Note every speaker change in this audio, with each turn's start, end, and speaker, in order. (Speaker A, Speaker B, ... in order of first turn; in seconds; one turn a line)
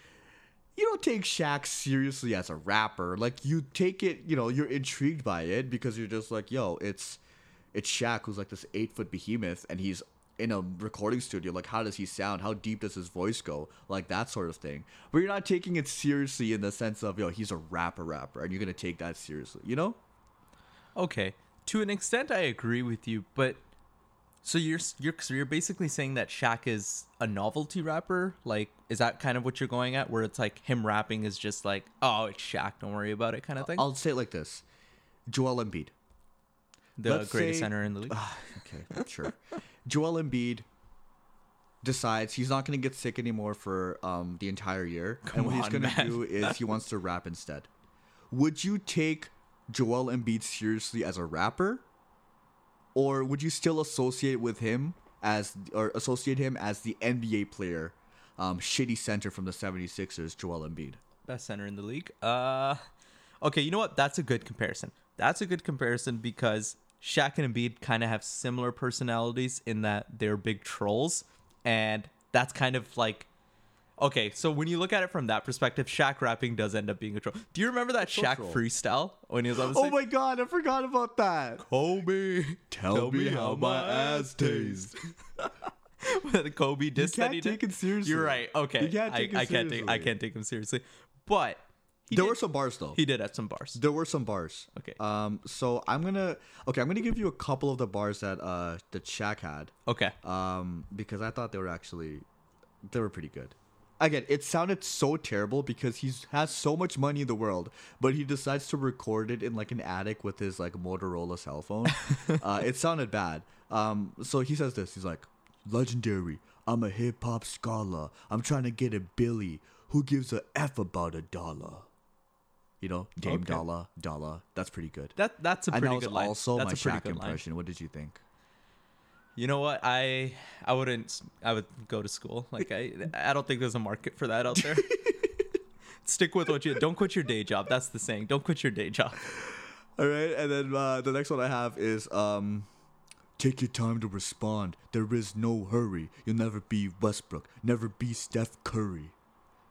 Speaker A: 0.8-7.2
Speaker A: 7.7-20.0
Speaker B: 21.0-23.6
Speaker B: 24.4-33.9
Speaker A: 33.6-34.6
Speaker A: 35.3-35.9
Speaker B: 37.0-38.2
Speaker A: 37.0-40.7
Speaker A: 41.8-47.7
Speaker B: 45.2-46.6
Speaker A: 48.3-51.9
Speaker A: 53.0-61.0
Speaker B: 61.3-62.8
Speaker B: 63.4-73.3
Speaker B: 74.0-80.0
Speaker A: 78.0-78.6
Speaker A: 79.5-81.7
Speaker B: 81.6-93.8
Speaker A: 82.7-85.0
Speaker A: 87.0-90.1
Speaker A: 92.1-93.0
Speaker A: 93.8-102.3
Speaker B: 99.9-100.2
Speaker A: 102.9-121.9
Speaker B: 112.0-112.4
Speaker A: 122.8-125.2
Speaker B: 123.2-123.7
Speaker B: 125.2-127.4
Speaker A: 125.7-128.2
Speaker B: 129.4-135.0
Speaker A: 134.6-135.3
Speaker B: 136.0-139.3
Speaker A: 139.3-142.7
Speaker A: 143.4-149.1